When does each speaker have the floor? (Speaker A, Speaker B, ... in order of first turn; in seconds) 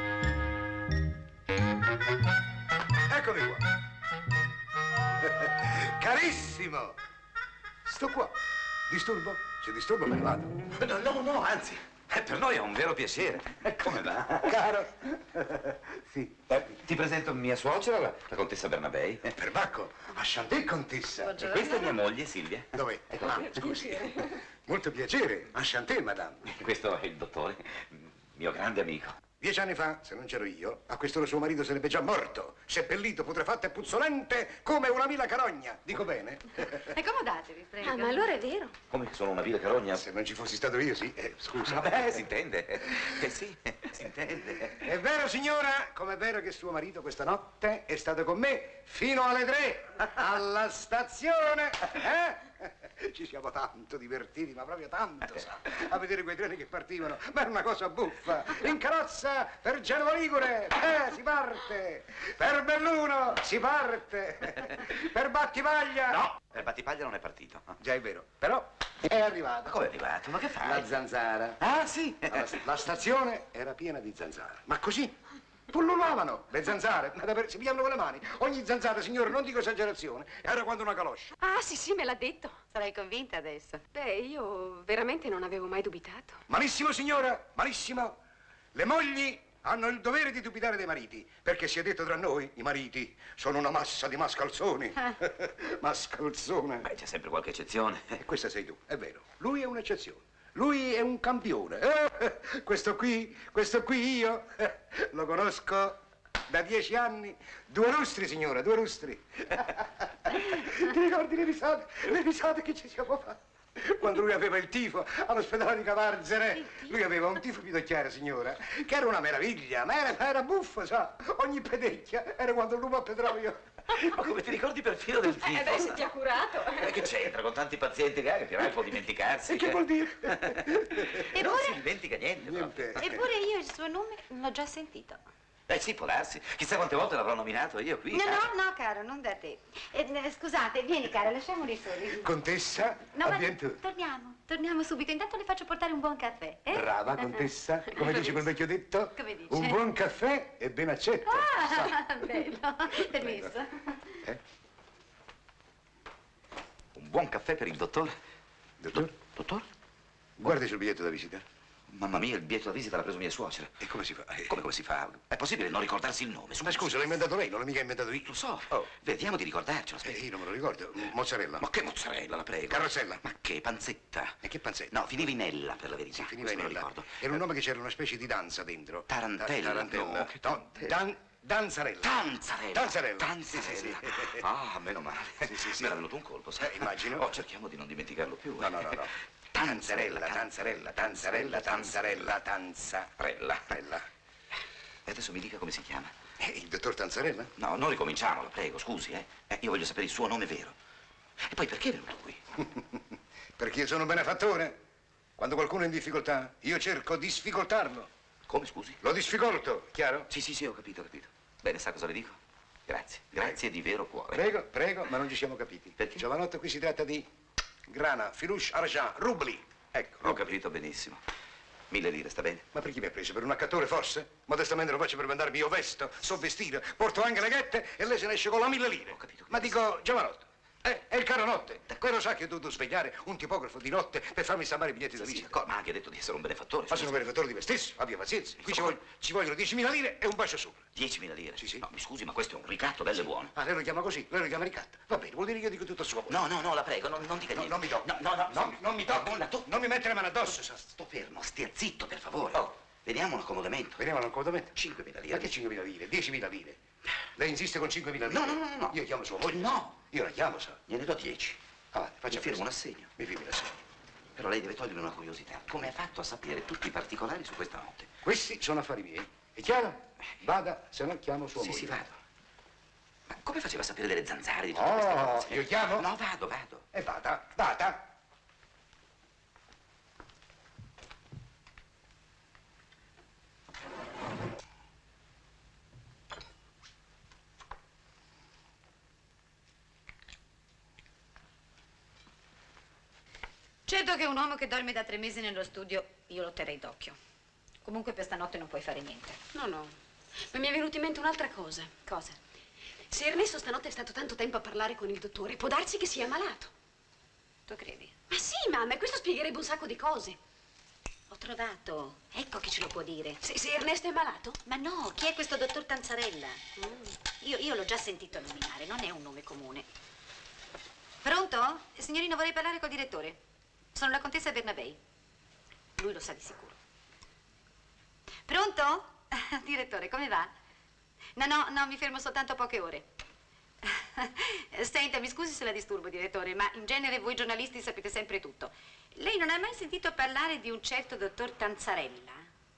Speaker A: 3.1-3.6, 5.2-7.0, 7.9-8.3, 8.9-10.5, 14.5-16.3, 19.4-21.5, 22.7-23.7, 24.7-26.5, 29.4-36.9, 39.9-42.2, 44.8-66.2, 67.8-69.7, 70.6-71.6, 72.3-75.1, 75.7-81.3, 86.5-88.2, 88.8-96.9, 98.2-106.0, 106.5-123.6, 129.5-131.3, 132.4-133.3, 142.2-143.8, 146.7-152.0, 158.8-159.1, 160.4-161.4, 163.8-164.6, 166.6-168.8, 170.0-171.7, 172.7-173.2, 174.4-175.3, 176.1-184.4, 185.5-185.9, 186.6-187.4, 188.6-193.1, 193.7-194.1, 196.4-197.5, 202.7-203.0, 203.6-204.8, 205.4-208.1, 209.0-210.3, 214.3-217.3, 217.9-220.5, 222.7-235.5, 236.9-240.8, 241.6-241.8, 243.5-246.4, 247.5-250.9, 254.0-254.8, 255.3-256.8, 257.4-260.8, 261.9-262.7, 263.2-263.8, 268.2-272.0, 274.7-276.1, 276.9-278.0
Speaker B: 10.8-14.6, 16.5-19.4, 21.4-23.8, 26.5-29.2, 38.9-40.0, 41.6-44.9, 66.1-67.8, 69.7-70.9, 71.6-72.5, 96.8-98.2, 123.9-126.0, 126.7-133.1, 135.7-138.5, 156.9-158.2, 158.9-159.7, 161.9-163.8, 164.5-167.2, 168.3-170.3, 171.6-174.4, 174.9-177.4, 179.1-181.0, 182.0-192.3, 193.2-193.8, 195.1-196.1, 197.6-200.8, 201.4-202.6, 208.5-209.0, 210.3-214.4, 216.0-216.2, 220.2-221.2, 221.9-222.7, 229.1-229.7, 235.2-237.1, 238.6-239.0, 240.9-243.5, 246.3-249.7, 250.8-254.0, 254.8-255.5, 258.2-259.9, 260.9-261.6, 262.3-263.1, 264.4-268.1, 271.6-272.2, 273.3-276.8
Speaker C: 21.3-22.0, 36.9-38.4, 82.7-83.8, 131.3-131.8, 133.0-135.2, 138.1-142.3, 143.2-147.4, 149.2-149.8, 151.2-154.2, 293.9-297.2, 297.8-299.4, 307.7-308.1, 311.3-313.4, 314.6-316.6, 317.4-319.9, 321.2-323.4, 323.9-325.0, 326.0-326.8, 328.5-330.5, 331.4-333.1, 333.8-342.5
Speaker D: 23.2-24.4, 37.8-38.7, 81.4-82.5, 83.9-86.4, 125.2-127.1, 299.5-299.9, 300.5-302.4, 303.1-306.7, 308.3-310.4, 313.4-314.6, 316.8-317.1